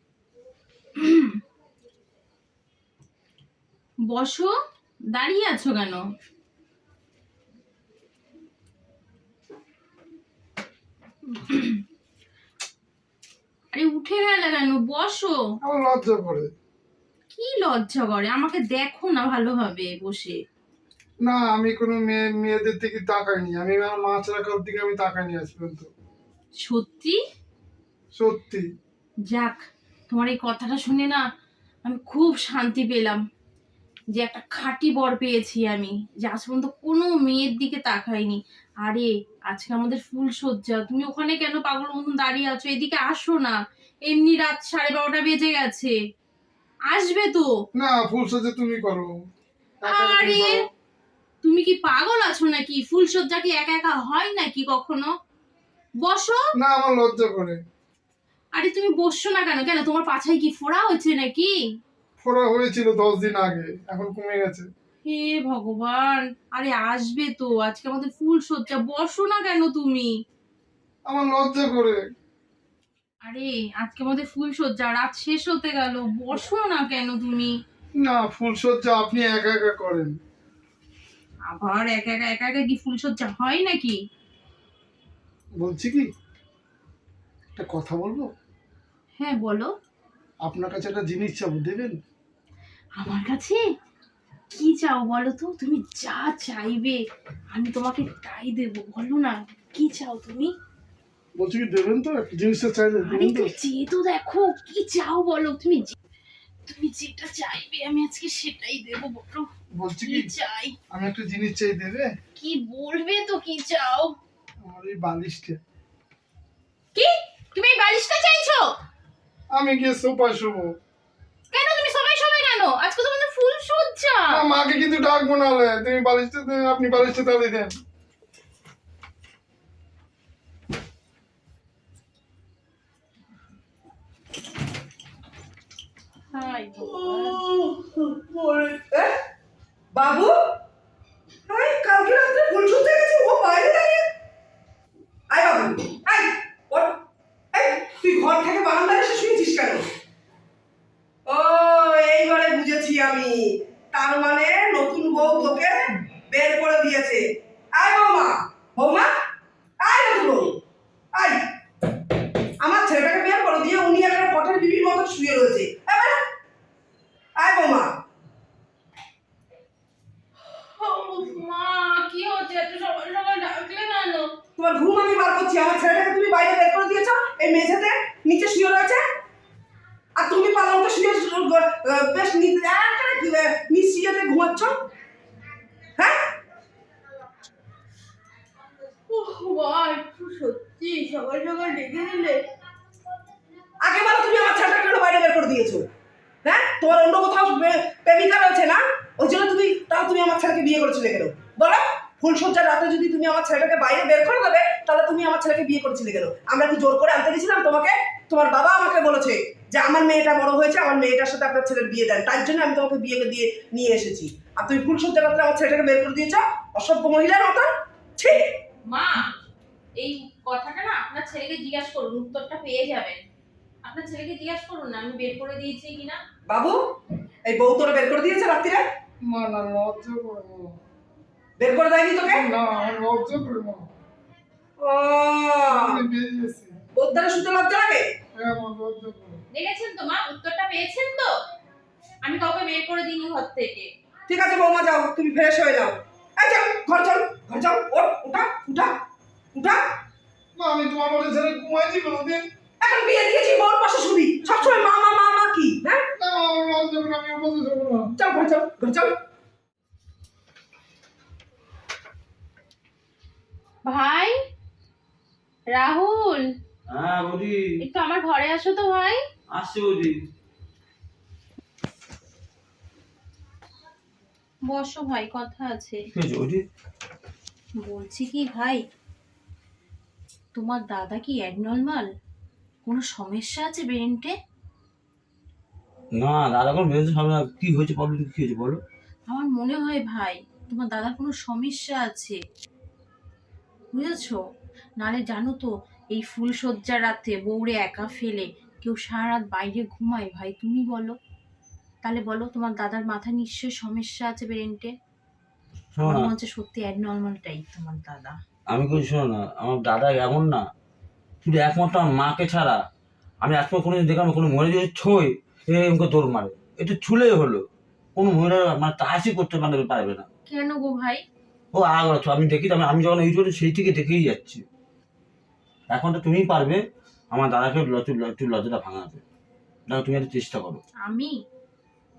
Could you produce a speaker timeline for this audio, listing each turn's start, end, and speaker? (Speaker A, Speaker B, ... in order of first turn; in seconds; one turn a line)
Speaker A: 0.9-1.4
Speaker A: 4.0-4.5
Speaker A: 5.1-6.0
Speaker A: 11.3-11.8
Speaker A: 13.7-15.4
Speaker B: 15.6-16.5
Speaker A: 17.3-20.4
Speaker B: 21.2-25.9
Speaker A: 26.6-27.2
Speaker B: 28.1-28.7
Speaker A: 29.3-31.2
Speaker A: 31.8-33.2
Speaker A: 34.1-45.9
Speaker A: 46.9-47.5
Speaker B: 47.7-49.1
Speaker B: 49.8-50.6
Speaker A: 49.9-50.6
Speaker A: 51.4-55.1
Speaker A: 56.0-56.4
Speaker B: 56.5-57.6
Speaker A: 58.5-61.5
Speaker B: 62.2-64.7
Speaker A: 65.0-70.1
Speaker B: 71.1-72.0
Speaker A: 73.2-77.5
Speaker B: 78.0-80.1
Speaker A: 81.5-84.0
Speaker B: 85.6-86.1
Speaker B: 87.5-88.3
Speaker A: 89.2-89.7
Speaker B: 90.4-92.0
Speaker A: 93.0-93.6
Speaker A: 94.5-97.0
Speaker A: 97.5-100.5
Speaker B: 101.3-103.5
Speaker A: 103.1-106.0
Speaker A: 106.7-109.5
Speaker B: 109.7-110.3
Speaker A: 110.0-110.7
Speaker B: 110.9-112.1
Speaker A: 112.3-114.2
Speaker B: 114.6-115.6
Speaker A: 116.9-118.7
Speaker B: 119.5-120.7
Speaker A: 121.5-124.4
Speaker B: 124.3-127.7
Speaker A: 136.3-137.4
Speaker C: 136.8-139.1
Speaker C: 139.9-140.3
Speaker C: 141.5-144.1
Speaker C: 145.3-146.9
Speaker C: 147.5-149.8
Speaker C: 151.3-157.2
Speaker C: 157.7-159.1
Speaker C: 159.8-160.6
Speaker C: 162.6-166.2
Speaker C: 167.4-167.9
Speaker A: 170.4-174.3
Speaker C: 174.6-179.0
Speaker C: 180.2-184.8
Speaker C: 186.0-186.3
Speaker A: 189.1-192.4
Speaker C: 193.8-195.8
Speaker C: 196.4-218.4
Speaker A: 218.9-219.2
Speaker A: 220.0-223.2
Speaker A: 223.8-226.2
Speaker C: 226.5-226.8
Speaker C: 227.4-228.8
Speaker B: 229.2-230.8
Speaker C: 231.6-232.5
Speaker B: 232.2-233.9
Speaker C: 234.8-236.0
Speaker B: 235.7-236.8
Speaker C: 236.9-238.1
Speaker B: 238.3-239.4
Speaker A: 239.5-241.3
Speaker A: 242.2-243.9
Speaker C: 244.3-248.9
Speaker C: 249.5-249.8
Speaker B: 250.6-252.5
Speaker C: 252.8-256.1
Speaker B: 256.1-258.1
Speaker C: 258.2-259.1
Speaker A: 263.9-264.3
Speaker A: 265.7-266.5
Speaker D: 266.9-267.7
Speaker A: 267.8-269.2
Speaker D: 269.5-270.1
Speaker A: 274.7-276.0
Speaker D: 276.1-276.6
Speaker A: 277.8-278.8
Speaker A: 280.5-282.1
Speaker A: 282.8-284.3
Speaker D: 286.1-288.8
Speaker A: 289.3-292.4
Speaker A: 293.9-294.4
Speaker A: 295.0-301.1
Speaker A: 302.0-304.9
Speaker D: 305.9-306.3
Speaker A: 306.0-308.4
Speaker D: 308.7-310.6
Speaker D: 311.4-312.8
Speaker D: 313.4-317.6
Speaker D: 318.1-320.3
Speaker A: 320.5-321.2
Speaker D: 321.7-324.6
Speaker D: 325.9-329.2
Speaker D: 329.9-330.8
Speaker A: 331.0-331.4